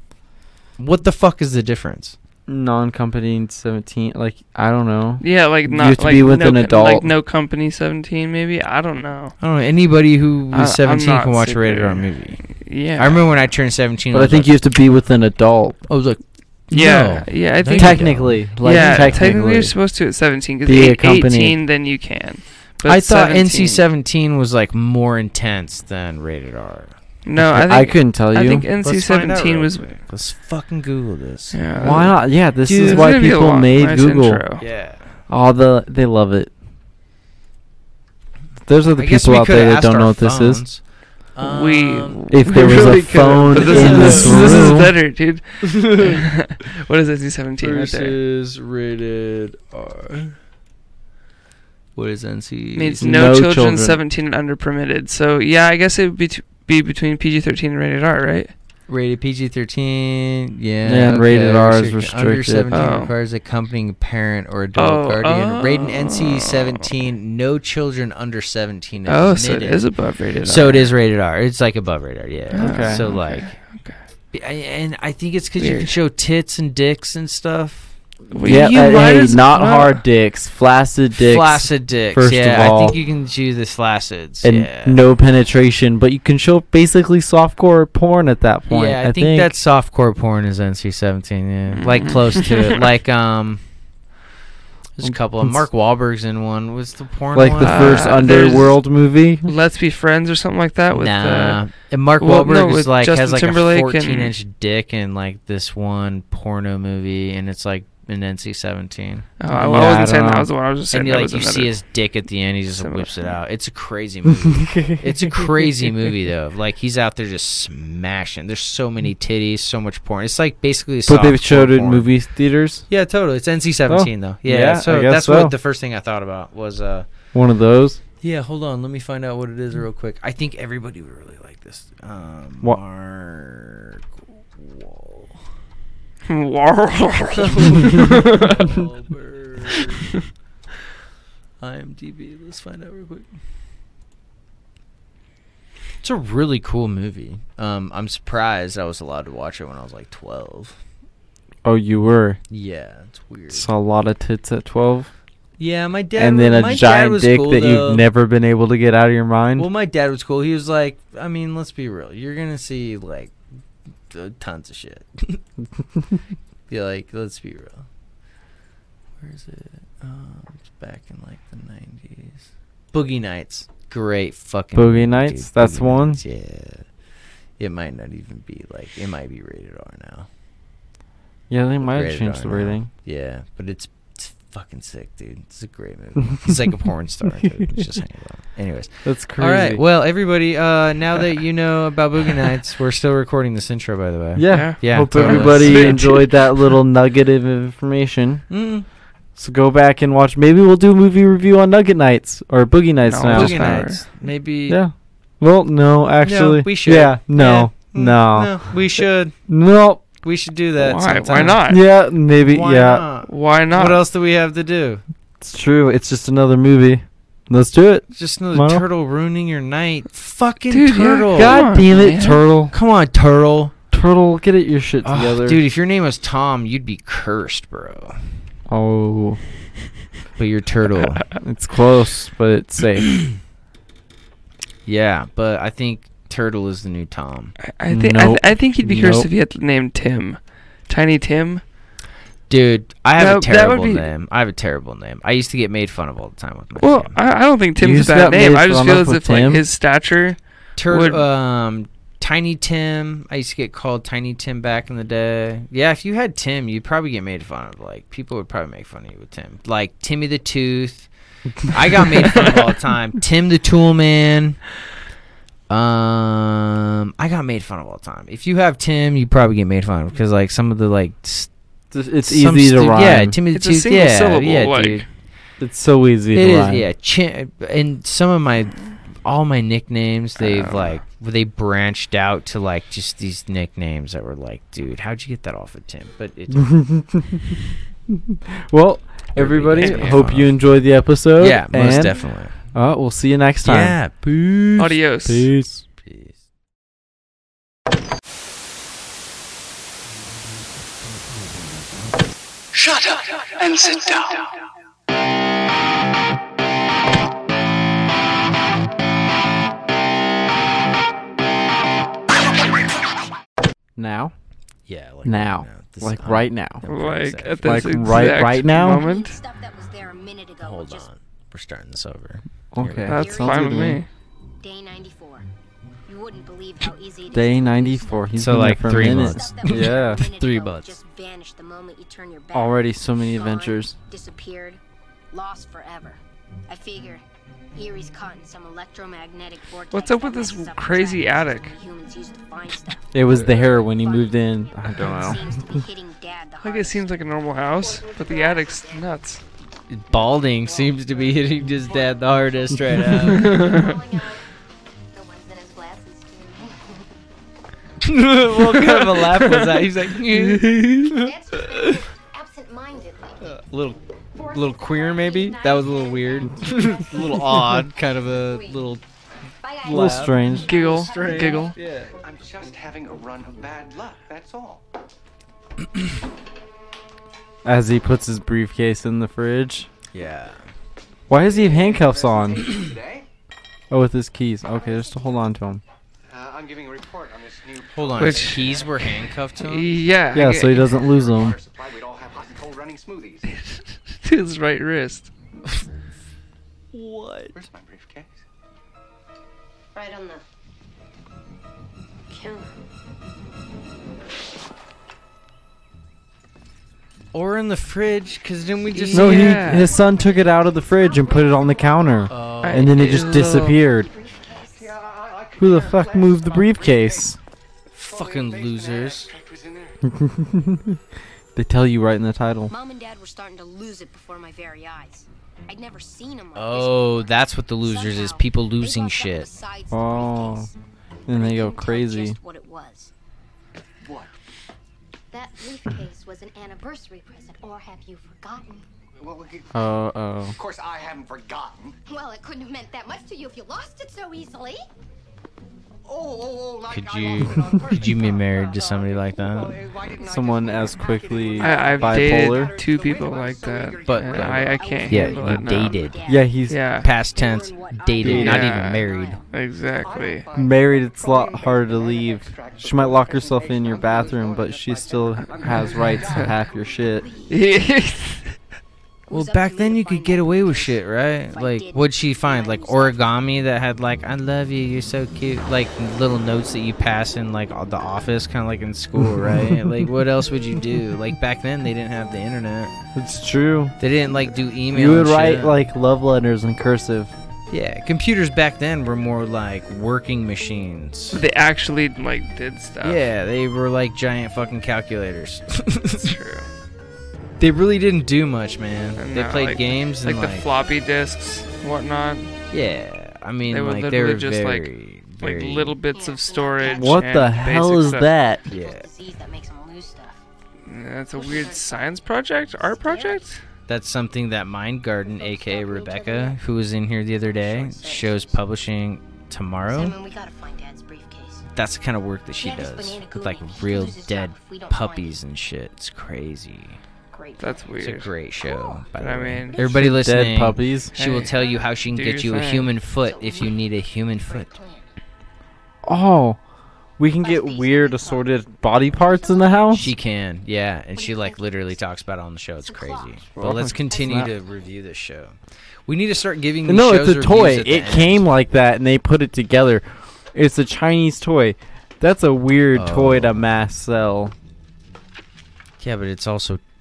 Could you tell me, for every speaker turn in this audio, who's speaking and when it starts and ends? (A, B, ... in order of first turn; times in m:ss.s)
0:00.8-0:02.2 A
0:02.5-0:07.1 B
0:05.2-0:09.4 C
0:09.4-0:14.6 A
0:10.5-0:13.5 C
0:14.1-0:15.9 B
0:15.9-0:19.4 A
0:16.7-0:23.8 C
0:17.7-0:19.8 B
0:20.6-0:21.6 B
0:22.8-0:27.0 A
0:27.2-0:30.0 C
0:27.4-0:28.7 B
0:28.8-0:32.1 A
0:31.5-0:34.6 C
0:31.8-0:34.4 B
0:32.7-0:33.0 A
0:34.6-0:35.2 A
0:35.3-0:36.5 B
0:38.6-0:40.7 B
0:39.0-0:44.8 A
0:41.4-0:48.2 C
0:42.3-0:45.0 B
0:45.6-0:46.3 A
0:47.6-0:50.4 A
0:52.0-0:53.2 A
0:52.7-0:58.5 C
0:53.0-0:54.0 B
0:58.9-1:09.9 A
1:00.8-1:02.8 B
1:02.7-1:03.1 C
1:04.8-1:06.9 C
1:09.1-1:11.0 C
1:10.4-1:13.6 A
1:12.5-1:14.0 C
1:12.6-1:13.0 B
1:14.3-1:18.7 A
1:15.6-1:16.0 C
1:18.3-1:20.0 C
1:18.4-1:23.0 B
1:21.2-1:25.0 A
1:24.4-1:29.5 B
1:28.7-1:33.6 A
1:31.7-1:32.8 C
1:35.0-1:38.2 A
1:35.0-1:35.7 B
1:37.3-1:39.5 B
1:37.6-1:44.3 C
1:40.9-1:49.3 A
1:49.4-1:52.0 C
1:49.5-1:50.5 B
1:50.9-2:02.1 A
1:52.7-1:53.4 C
1:54.3-1:55.5 B
2:01.0-2:02.9 B
2:02.9-2:07.1 A
2:03.9-2:05.6 B
2:07.3-2:08.0 B
2:08.2-2:15.5 A
2:16.3-2:18.7 C
2:17.4-2:20.2 A
2:21.6-2:23.4 A
2:26.0-2:30.8 A
2:31.6-2:32.4 B
2:32.5-2:33.7 A
2:33.5-2:35.1 B
2:35.6-2:38.1 A
2:36.2-2:39.7 B
2:39.6-2:43.4 A
2:44.1-2:45.4 A
2:46.7-2:47.9 A
2:49.2-2:56.9 A
2:54.8-2:56.2 B
2:57.6-3:00.3 A
3:01.5-3:02.9 B
3:01.8-3:16.0 A
3:09.0-3:09.8 B
3:14.4-3:18.5 B
3:14.5-3:16.6 C
3:18.5-3:18.9 A
3:19.4-3:23.9 B
3:23.1-3:24.1 C
3:23.3-3:24.8 A
3:24.7-3:30.0 B
3:26.2-3:29.4 A
3:30.2-3:31.6 A
3:30.8-3:31.8 C
3:31.6-3:33.0 B
3:32.4-3:35.0 A
3:33.3-3:34.0 C
3:35.4-3:38.9 B
3:38.1-3:41.6 A
3:40.7-3:42.4 C
3:41.3-3:42.8 B
3:42.7-3:43.7 A
3:43.9-3:45.6 B
3:45.0-3:48.2 A
3:48.7-3:49.4 B
3:50.4-3:51.3 A
3:51.4-3:53.4 B
3:54.9-3:57.6 A
3:57.6-4:01.6 C
3:57.9-3:59.3 B
4:02.5-4:07.2 A
4:03.2-4:04.1 C
4:06.8-4:11.2 C
4:07.8-4:09.7 B
4:10.8-4:21.1 A
4:21.6-4:24.7 A
4:25.7-4:31.5 A
4:31.9-4:33.4 B
4:32.2-4:35.0 A
4:33.5-4:35.1 C
4:35.6-4:36.9 B
4:36.3-4:46.7 A
4:40.4-4:41.0 C
4:46.5-4:47.6 B
4:48.1-4:55.8 B
4:49.3-4:50.5 A
4:49.7-4:50.3 C
4:51.4-4:52.6 A
4:53.6-4:54.8 A
4:54.8-4:55.5 C
4:56.0-4:56.4 A
5:02.9-5:04.4 D
5:03.8-5:04.4 C
5:14.0-5:14.3 B
5:14.9-5:18.0 A
5:15.2-5:16.8 B
5:16.8-5:19.4 C
5:17.6-5:19.0 B
5:18.9-5:21.1 E
5:20.6-5:23.1 A
5:22.7-5:24.0 B
5:23.1-5:23.9 E
5:23.1-5:24.1 C
5:24.6-5:25.5 E
5:26.1-5:49.1 E
5:27.3-5:30.3 B
5:28.4-5:31.0 A
5:32.5-5:34.0 B
5:39.9-5:41.8 C
5:43.1-5:45.6 B
5:46.6-5:49.4 C
5:49.9-5:53.7 A
5:50.2-5:54.5 E
5:53.4-5:53.9 C
5:55.1-5:57.0 E
5:58.0-6:01.9 A
5:58.7-6:00.0 C
6:01.0-6:03.5 E
6:03.4-6:09.0 A
6:04.3-6:08.9 E
6:09.6-6:11.8 E
6:09.8-6:10.4 A
6:09.8-6:11.7 B
6:10.6-6:11.8 C
6:11.1-6:12.1 A
6:12.1-6:14.8 D
6:17.6-6:19.9 B
6:20.1-6:20.7 A
6:21.3-6:22.7 B
6:21.3-6:23.3 D
6:23.9-6:25.8 B
6:24.7-6:25.5 E
6:26.3-6:28.9 D
6:27.9-6:29.9 A
6:28.2-6:30.9 C
6:30.3-6:31.6 B
6:30.7-6:33.5 D
6:33.5-6:35.3 C
6:36.9-6:37.6 A
6:37.6-6:38.4 D
6:39.9-6:40.4 E
6:42.3-6:42.8 E
6:47.3-6:49.8 A
6:48.9-6:49.9 C
6:49.1-6:54.1 B
6:49.6-6:52.4 E
6:52.3-6:53.2 A
6:52.6-6:53.8 C
6:53.4-6:55.0 E
6:54.7-6:57.4 D
6:55.6-6:57.4 B
6:57.9-7:00.0 D
6:57.9-6:59.3 A
7:00.0-7:01.0 B
7:01.6-7:02.7 B
7:02.7-7:10.8 E
7:06.5-7:09.5 A
7:09.9-7:10.7 B
7:11.3-7:13.1 E
7:11.3-7:12.4 B
7:14.0-7:14.3 D
7:15.3-7:18.9 E
7:19.2-7:19.8 D
7:19.7-7:20.6 B
7:20.5-7:22.0 D
7:22.1-7:24.9 E
7:26.0-7:35.0 D
7:26.9-7:29.8 A
7:30.2-7:32.7 B
7:30.3-7:31.0 E
7:31.6-7:36.0 C
7:34.0-7:36.2 A
7:34.8-7:39.5 E
7:36.3-7:36.8 B
7:36.7-7:37.1 C
7:37.0-7:39.4 A
7:38.2-7:38.7 B
7:38.3-7:40.5 C
7:40.0-7:46.8 D
7:40.5-7:47.3 B
7:47.1-7:47.8 E
7:47.5-7:48.6 C
7:49.3-7:53.3 E
7:49.3-8:02.9 A
7:59.4-7:59.8 B
8:03.2-8:04.0 B
8:04.0-8:05.8 A
8:04.9-8:07.3 B
8:07.7-8:11.4 A
8:11.3-8:13.3 C
8:13.0-8:16.4 A
8:16.2-8:16.7 C
8:17.6-8:20.7 A
8:19.2-8:22.5 C
8:22.7-8:26.0 A
8:23.7-8:28.3 C
8:26.1-8:27.5 E
8:26.8-8:28.7 B
8:28.7-8:30.4 E
8:28.7-8:29.1 A
8:30.8-8:33.6 C
8:31.3-8:33.5 E
8:33.9-8:40.2 A
8:35.2-8:36.6 E
8:37.5-8:38.6 E
8:39.9-8:41.7 E
8:41.8-8:47.0 A
8:42.6-8:45.4 E
8:47.3-8:47.9 E
8:47.6-8:48.3 C
8:48.0-8:54.8 A
8:48.6-8:49.1 E
8:49.1-8:49.8 C
8:49.6-8:49.9 E
8:49.8-8:51.2 B
8:51.2-8:51.5 C
8:51.5-8:51.9 E
8:52.1-8:52.9 C
8:53.0-8:53.9 E
8:54.4-8:55.1 E
8:56.0-8:56.6 B
8:57.2-9:00.1 B
8:57.4-9:00.3 E
8:59.9-9:08.5 A
9:01.1-9:02.0 E
9:02.8-9:03.5 E
9:03.6-9:04.5 B
9:04.0-9:04.7 E
9:06.9-9:14.6 B
9:12.9-9:13.6 A
9:16.0-9:16.8 A